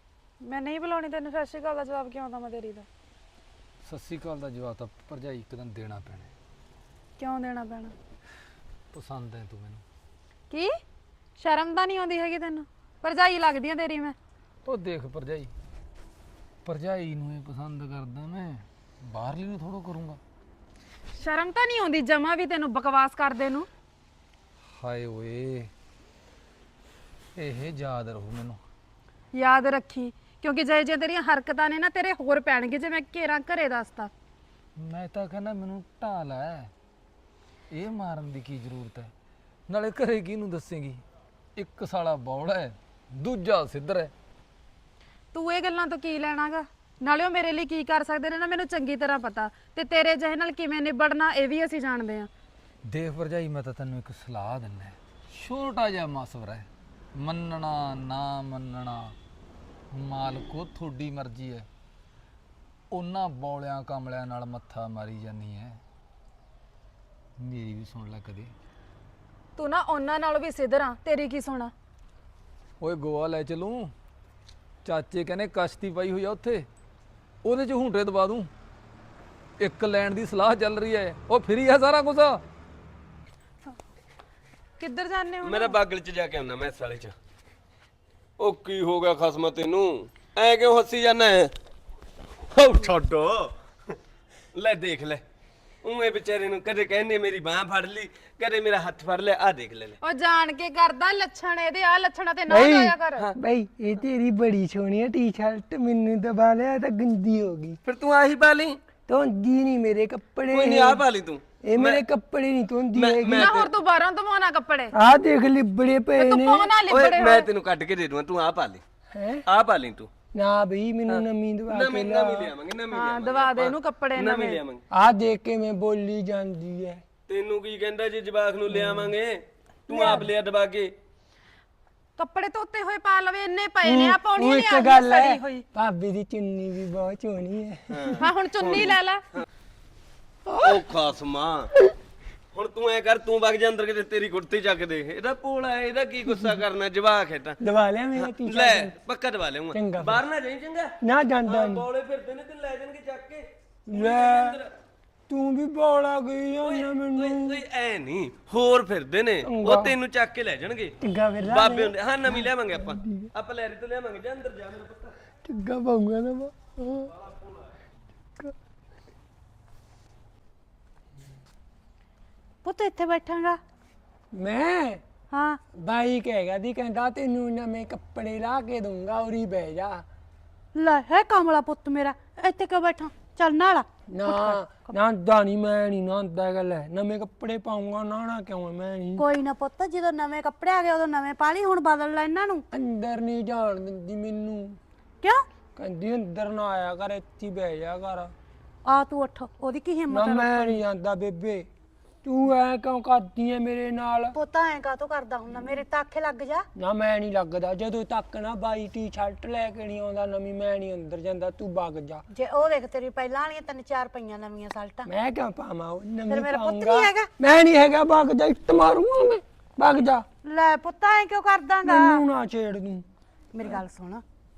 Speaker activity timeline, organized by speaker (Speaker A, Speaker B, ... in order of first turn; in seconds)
Speaker A: 0.4-2.9, 7.2-7.9, 11.4-14.2, 21.1-23.7, 29.3-34.1, 45.3-52.3, 69.6-71.7, 84.8-85.8, 100.0-103.3, 113.3-115.0, 116.2-117.5, 122.9-124.6, 129.9-130.2, 132.2-135.7, 138.2-139.2
Speaker B: 3.9-6.3, 8.9-9.8, 14.7-15.5, 16.6-20.2, 24.8-25.7, 27.4-28.6, 34.8-36.7, 37.7-39.1, 39.7-41.0, 41.6-44.1, 52.9-56.7, 57.2-59.1, 59.9-61.7, 62.9-65.8, 67.4-68.5, 72.8-73.9, 74.8-76.7, 77.4-78.5, 79.6-82.4
Speaker C: 85.5-87.1, 88.4-91.5, 92.6-93.4, 94.6-95.2, 95.8-100.0, 110.5-112.0, 113.0-113.4, 117.0-118.8, 119.5-120.0, 121.1-124.4, 127.3-129.0, 129.9-130.9, 140.7-141.7, 142.6-147.5, 148.2-150.7, 151.5-153.4, 153.9-154.5, 156.6-160.9, 161.5-163.4, 164.2-165.1
Speaker D: 102.5-107.8, 109.1-111.1, 111.6-113.7, 114.9-116.8, 119.1-119.4, 120.3-122.6, 124.9-127.0, 128.7-129.1, 130.0-130.3, 133.8-138.2, 146.2-146.6, 147.6-149.0, 149.7-150.3, 151.0-151.9, 153.9-154.6, 155.3-157.7, 159.4-160.0, 161.0-163.3, 165.4-167.1, 174.3-175.0, 175.7-180.1, 184.1-189.2, 192.7-194.8, 195.8-198.3, 200.1-201.7, 202.2-204.4, 206.8-212.2, 215.1-220.3, 221.8-223.1
Speaker E: 172.6-173.6, 175.3-175.6, 180.8-184.9, 189.2-192.6, 198.9-200.8, 204.3-206.7, 212.3-215.1, 216.3-217.3, 220.5-222.2, 223.5-224.2